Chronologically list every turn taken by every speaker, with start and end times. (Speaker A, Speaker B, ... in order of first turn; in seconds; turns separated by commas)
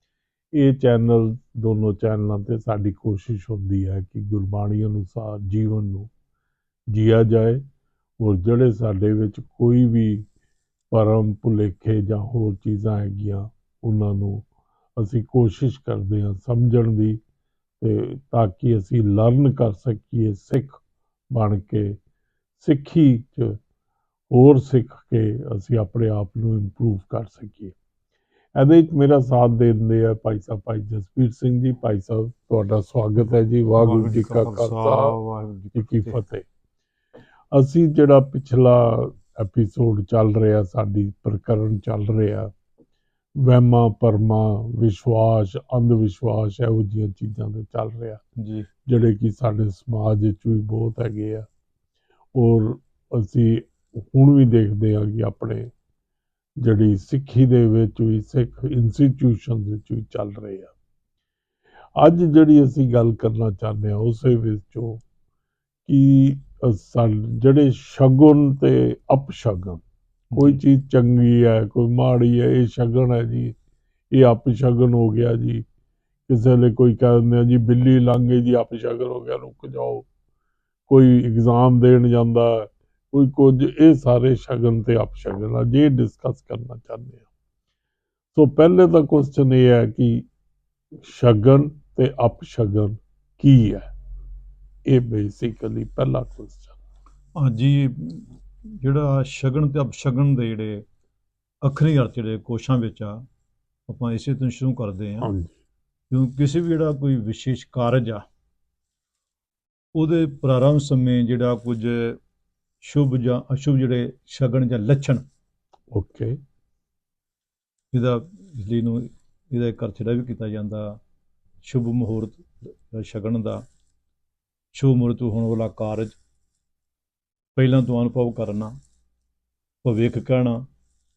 Speaker A: 0.5-6.1, Speaker A: 6.9-7.6, Speaker A: 8.2-10.3, Speaker A: 10.9-17.2, Speaker A: 17.8-20.8, Speaker A: 21.3-22.0, Speaker A: 22.6-23.6, Speaker A: 24.3-27.8, Speaker A: 28.6-35.2, Speaker B: 33.8-36.2, Speaker A: 35.8-36.5, Speaker A: 37.5-42.5, Speaker A: 43.4-48.2, Speaker B: 48.4-48.7, Speaker A: 48.9-51.5, Speaker A: 52.4-55.7, Speaker A: 56.6-60.7, Speaker A: 62.0-65.0, Speaker A: 65.9-69.8, Speaker B: 70.3-70.6, Speaker A: 70.4-73.6, Speaker A: 74.1-75.7, Speaker A: 76.3-80.1, Speaker A: 80.9-87.2, Speaker A: 88.3-90.2, Speaker A: 91.0-93.9, Speaker A: 94.9-96.8, Speaker B: 97.4-100.8, Speaker B: 101.6-103.2, Speaker B: 103.9-105.3, Speaker A: 105.2-105.5, Speaker B: 106.1-108.2, Speaker B: 109.9-112.2, Speaker B: 112.8-115.2, Speaker A: 115.9-116.4, Speaker B: 117.9-121.0, Speaker B: 121.6-123.6, Speaker B: 124.7-126.2, Speaker B: 127.6-128.8, Speaker B: 129.8-130.7